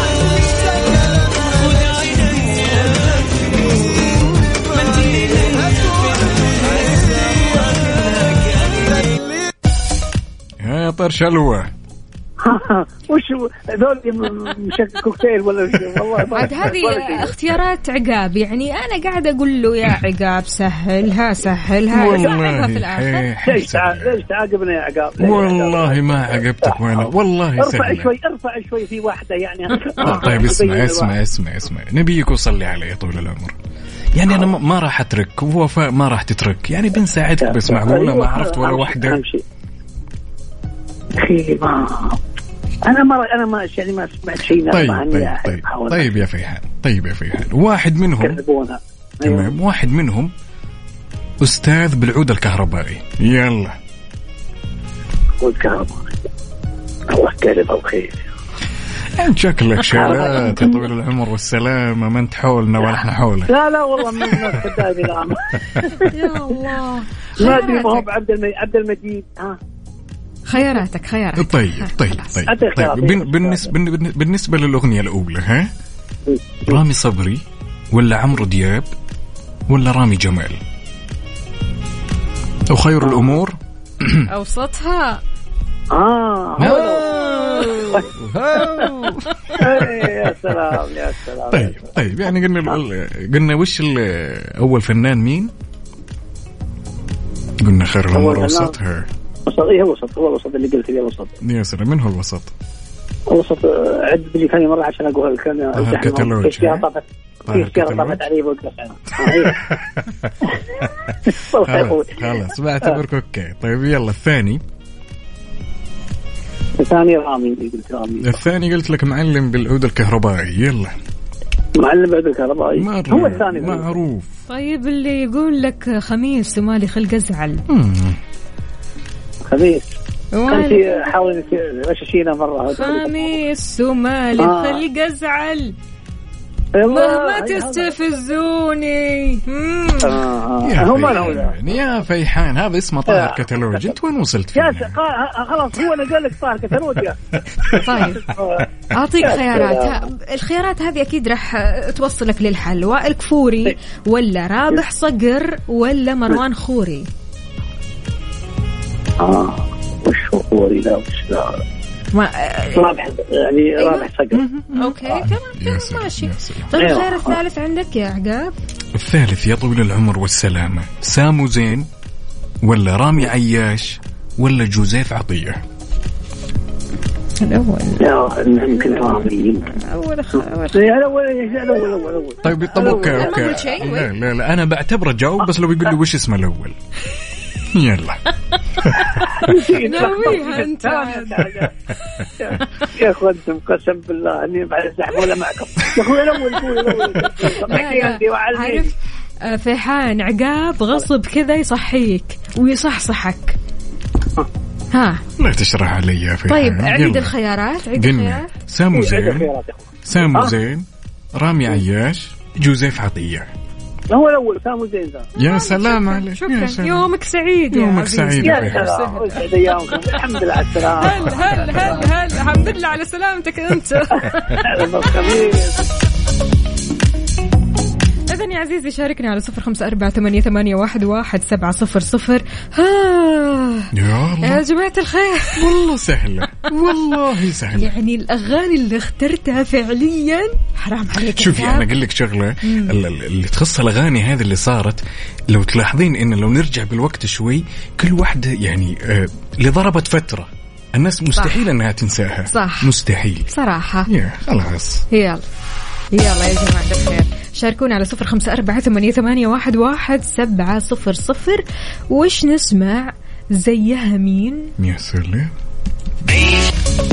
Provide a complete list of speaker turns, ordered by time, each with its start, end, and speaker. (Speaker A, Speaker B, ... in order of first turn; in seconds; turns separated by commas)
Speaker A: 1.9-3.0, Speaker A: 5.1-5.5, Speaker B: 10.6-11.7, Speaker A: 12.4-17.3, Speaker C: 16.3-23.3, Speaker B: 21.9-24.3, Speaker A: 23.4-31.1, Speaker B: 25.2-28.1, Speaker B: 30.0-33.6, Speaker B: 34.1-39.2, Speaker A: 37.4-39.4, Speaker A: 41.1-42.2, Speaker A: 42.9-46.2, Speaker B: 44.7-48.4, Speaker A: 48.2-49.5, Speaker B: 49.2-50.3, Speaker B: 51.4-53.8, Speaker A: 55.4-56.1, Speaker A: 57.1-58.2, Speaker B: 59.2-63.5, Speaker A: 59.9-60.9, Speaker A: 63.5-66.1, Speaker B: 64.2-64.6, Speaker C: 66.0-68.1, Speaker A: 67.4-69.6, Speaker C: 70.5-72.4, Speaker B: 71.4-75.7, Speaker A: 72.4-73.7, Speaker A: 76.3-76.8, Speaker B: 76.7-78.9, Speaker B: 79.7-80.6, Speaker B: 82.7-84.3, Speaker A: 83.0-83.3, Speaker C: 84.3-85.2, Speaker A: 85.9-87.2, Speaker B: 86.6-90.0, Speaker C: 86.7-88.0, Speaker A: 87.8-88.7, Speaker A: 89.6-92.0, Speaker B: 91.5-95.5, Speaker B: 97.6-99.1, Speaker A: 98.1-98.8, Speaker A: 99.5-101.4, Speaker B: 101.4-102.5, Speaker A: 103.3-109.7, Speaker B: 105.7-106.9, Speaker B: 107.5-108.2, Speaker B: 109.2-110.3, Speaker A: 111.3-113.0, Speaker B: 111.6-114.6, Speaker A: 116.8-118.3, Speaker B: 118.2-120.9, Speaker A: 121.8-123.9, Speaker B: 122.8-124.3, Speaker C: 124.5-127.6, Speaker B: 127.7-128.2, Speaker A: 129.5-129.9, Speaker C: 130.3-130.8, Speaker A: 130.5-133.3, Speaker C: 132.7-135.8, Speaker A: 134.4-134.8, Speaker A: 136.8-137.9, Speaker C: 136.8-140.2, Speaker A: 140.0-141.6, Speaker B: 140.6-144.9, Speaker A: 143.1-143.9, Speaker A: 144.6-148.7, Speaker C: 147.8-148.3, Speaker C: 148.9-157.1, Speaker A: 149.2-150.0, Speaker A: 159.2-161.6, Speaker C: 162.1-162.9, Speaker A: 162.7-164.4, Speaker C: 163.8-164.1, Speaker B: 164.4-166.8, Speaker C: 164.7-168.5, Speaker A: 166.8-167.4, Speaker B: 168.9-171.9, Speaker B: 172.6-175.6, Speaker C: 177.4-178.1, Speaker A: 178.0-179.7, Speaker C: 179.7-180.9, Speaker A: 180.7-183.5, Speaker B: 182.4-186.8, Speaker C: 182.8-184.1, Speaker B: 187.7-188.2, Speaker B: 188.8-189.2, Speaker A: 189.1-191.8, Speaker C: 189.7-191.5, Speaker A: 192.4-198.9, Speaker C: 197.6-198.9, Speaker C: 199.4-203.6, Speaker C: 204.9-205.2, Speaker B: 205.4-207.3, Speaker C: 206.5-208.5, Speaker B: 207.9-209.5, Speaker A: 208.9-210.6, Speaker B: 210.1-213.5, Speaker A: 214.1-215.3, Speaker B: 215.4-217.1, Speaker C: 215.4-219.5, Speaker B: 217.7-219.0, Speaker A: 218.4-222.1, Speaker C: 220.9-224.7, Speaker A: 224.5-225.8, Speaker C: 228.3-233.9, Speaker B: 233.9-234.6, Speaker C: 234.4-235.7, Speaker B: 235.6-237.9, Speaker C: 237.7-241.9, Speaker B: 241.3-253.6, Speaker C: 242.6-242.9, Speaker C: 251.3-251.7, Speaker C: 252.5-252.9, Speaker C: 253.5-254.1, Speaker B: 254.1-255.1, Speaker C: 255.1-255.5, Speaker C: 256.1-264.7, Speaker B: 264.8-265.5